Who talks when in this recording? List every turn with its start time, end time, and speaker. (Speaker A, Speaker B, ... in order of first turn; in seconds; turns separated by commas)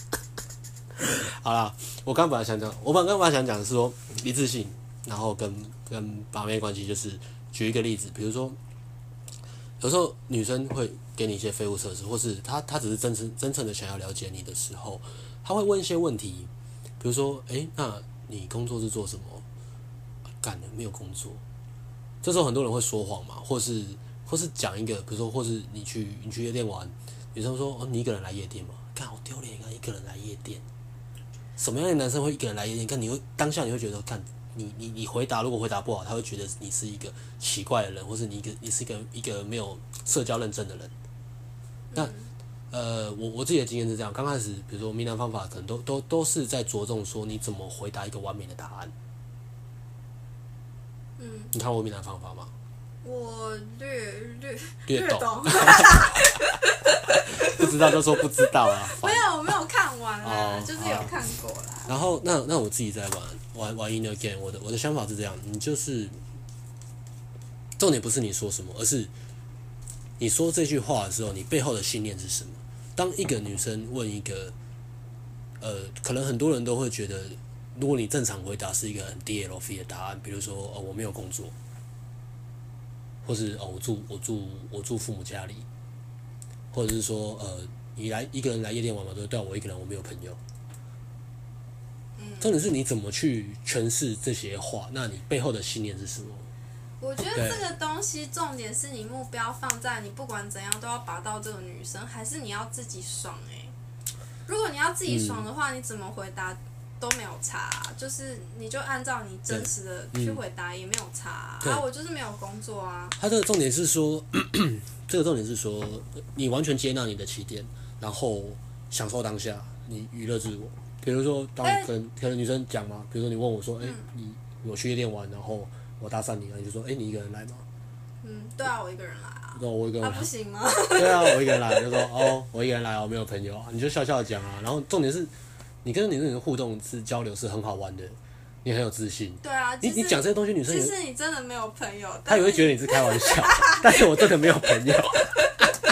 Speaker A: 1.0-8.6, Speaker A: 9.8-19.4, Speaker A: 20.4-21.4, Speaker A: 22.2-30.6, Speaker A: 31.6-40.9, Speaker B: 41.9-42.3, Speaker A: 42.7-48.9, Speaker B: 51.2-51.5, Speaker A: 51.5-52.5, Speaker B: 53.0-61.9, Speaker A: 54.9-56.2, Speaker A: 57.3-59.3, Speaker A: 60.2-61.1, Speaker A: 61.9-66.2, Speaker A: 67.8-69.1, Speaker A: 70.2-74.5, Speaker A: 75.6-81.5, Speaker A: 83.2-85.7, Speaker A: 86.7-90.4, Speaker B: 92.2-92.5, Speaker A: 92.4-96.5, Speaker B: 97.0-103.7, Speaker A: 97.3-97.6, Speaker B: 104.5-113.2, Speaker A: 105.1-105.5, Speaker A: 109.5-110.4, Speaker A: 113.2-127.7, Speaker B: 121.6-121.9, Speaker B: 128.2-132.3, Speaker A: 129.6-130.3, Speaker A: 130.9-135.3, Speaker A: 135.8-140.9, Speaker B: 139.4-144.1, Speaker A: 142.3-145.5